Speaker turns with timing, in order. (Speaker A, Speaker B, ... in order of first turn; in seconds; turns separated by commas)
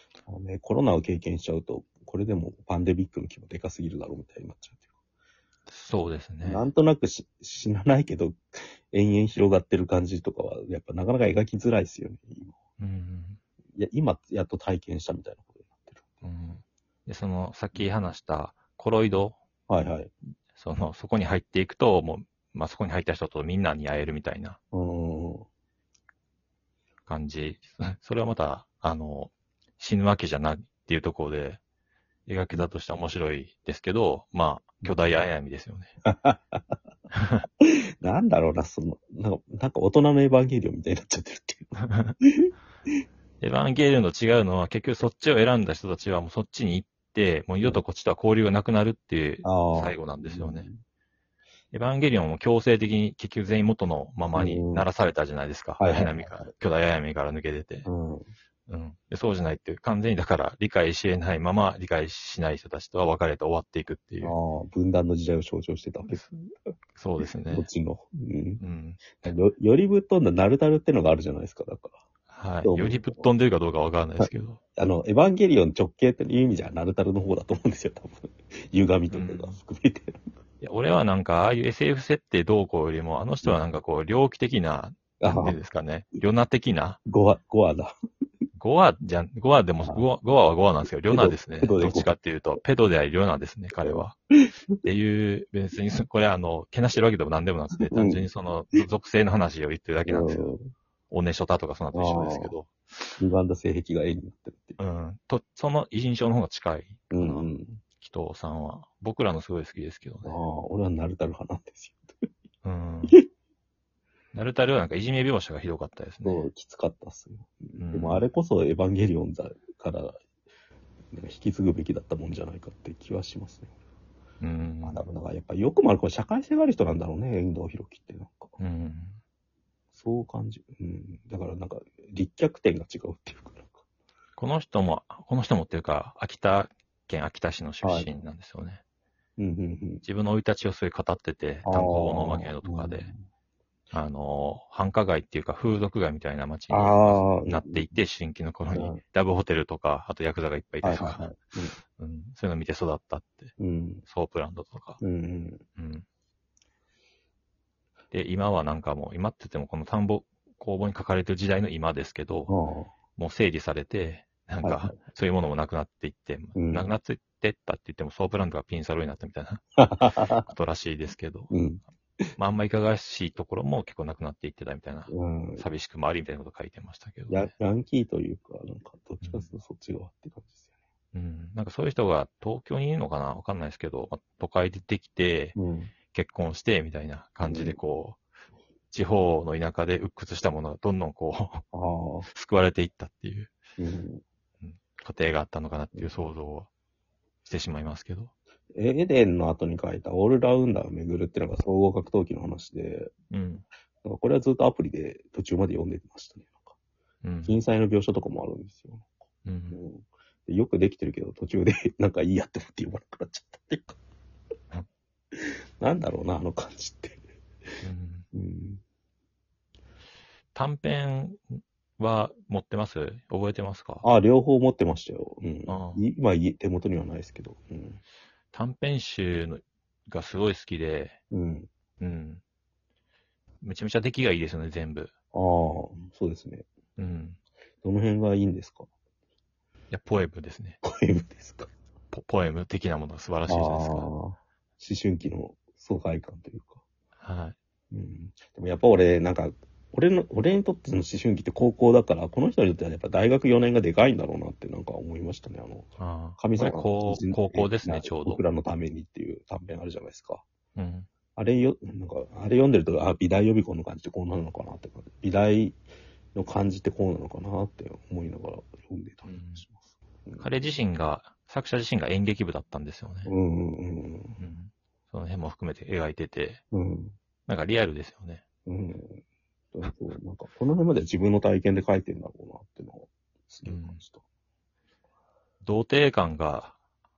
Speaker A: 0.2-4.9, Speaker B: 5.7-6.7, Speaker A: 6.4-12.6, Speaker B: 12.8-13.4, Speaker A: 13.8-16.2, Speaker B: 16.2-19.4, Speaker A: 19.7-20.1, Speaker B: 20.5-24.6, Speaker A: 24.7-25.5, Speaker B: 27.1-31.6, Speaker B: 32.3-35.9, Speaker A: 36.0-36.8, Speaker A: 37.6-42.5, Speaker B: 43.4-50.7, Speaker A: 49.4-50.8, Speaker B: 51.7-57.9, Speaker A: 54.3-54.9, Speaker A: 55.8-56.5, Speaker A: 57.9-58.3, Speaker B: 58.7-64.3, Speaker A: 64.2-66.2, Speaker B: 66.1-66.4, Speaker B: 67.0-67.7, Speaker A: 67.5-68.6, Speaker B: 68.6-69.2, Speaker A: 69.2-72.0, Speaker B: 72.3-74.6, Speaker A: 72.6-73.3, Speaker A: 74.2-80.3, Speaker B: 79.1-79.6, Speaker B: 80.6-87.0, Speaker A: 85.2-85.6, Speaker A: 87.1-87.9, Speaker B: 88.6-94.2, Speaker A: 91.1-92.1, Speaker A: 93.8-94.5, Speaker B: 94.8-100.5, Speaker A: 97.8-98.2, Speaker A: 100.0-100.7, Speaker B: 101.1-103.2, Speaker A: 101.9-102.5, Speaker A: 103.2-104.8, Speaker B: 104.8-107.5, Speaker A: 107.1-107.8, Speaker B: 108.0-110.4, Speaker A: 110.2-112.3, Speaker B: 112.6-113.2, Speaker B: 114.3-116.5, Speaker A: 116.2-120.2, Speaker B: 117.8-118.2, Speaker A: 121.1-123.7, Speaker B: 124.4-125.1, Speaker A: 124.8-128.5, Speaker B: 128.6-129.2, Speaker A: 129.9-133.8, Speaker B: 134.4-138.8, Speaker A: 137.8-138.1, Speaker A: 139.4-140.0, Speaker B: 140.0-143.1, Speaker A: 141.7-143.2, Speaker B: 143.9-151.3, Speaker A: 146.7-147.9, Speaker A: 148.7-149.0, Speaker A: 150.8-151.8, Speaker B: 152.0-153.5, Speaker A: 153.6-154.1, Speaker B: 154.1-155.0, Speaker A: 155.0-155.6, Speaker B: 155.8-156.1, Speaker B: 158.1-162.5, Speaker A: 162.5-162.9, Speaker B: 163.2-169.8, Speaker A: 164.6-165.0, Speaker A: 166.6-166.9, Speaker A: 169.8-170.5, Speaker B: 170.4-171.5, Speaker A: 171.5-171.8, Speaker B: 172.4-177.5, Speaker A: 175.1-175.7, Speaker A: 177.3-180.7, Speaker B: 179.2-179.5, Speaker B: 181.1-185.6, Speaker A: 185.6-185.9, Speaker B: 186.1-188.2, Speaker A: 187.4-187.8, Speaker B: 188.9-191.6, Speaker A: 191.7-192.3, Speaker B: 192.3-193.6, Speaker A: 193.8-194.2, Speaker B: 194.6-196.7, Speaker B: 197.4-198.3, Speaker A: 198.7-203.1, Speaker B: 203.3-203.7, Speaker A: 204.0-206.7, Speaker B: 207.2-207.6, Speaker A: 207.4-209.1, Speaker B: 209.5-209.8, Speaker A: 209.7-214.0, Speaker A: 215.3-217.2, Speaker B: 217.8-218.3, Speaker A: 218.3-218.8, Speaker B: 220.6-224.1, Speaker A: 224.0-228.0, Speaker B: 225.7-226.0, Speaker B: 228.5-231.2, Speaker A: 231.3-231.7, Speaker B: 232.0-232.4, Speaker B: 233.6-235.1, Speaker A: 235.3-236.7, Speaker B: 237.0-237.4, Speaker A: 237.8-238.9, Speaker B: 239.9-240.8, Speaker A: 240.8-241.7, Speaker B: 242.1-244.1, Speaker A: 243.5-246.8, Speaker B: 247.2-247.6, Speaker A: 247.9-260.5, Speaker B: 256.0-258.4, Speaker B: 260.8-261.1, Speaker A: 261.4-265.8, Speaker A: 266.4-270.5, Speaker B: 269.2-269.6, Speaker B: 270.4-273.3, Speaker A: 273.3-274.4, Speaker B: 274.4-276.6, Speaker A: 276.7-277.2, Speaker B: 277.5-278.4, Speaker A: 278.7-279.2, Speaker A: 279.7-284.2, Speaker B: 283.6-284.0, Speaker B: 285.6-286.8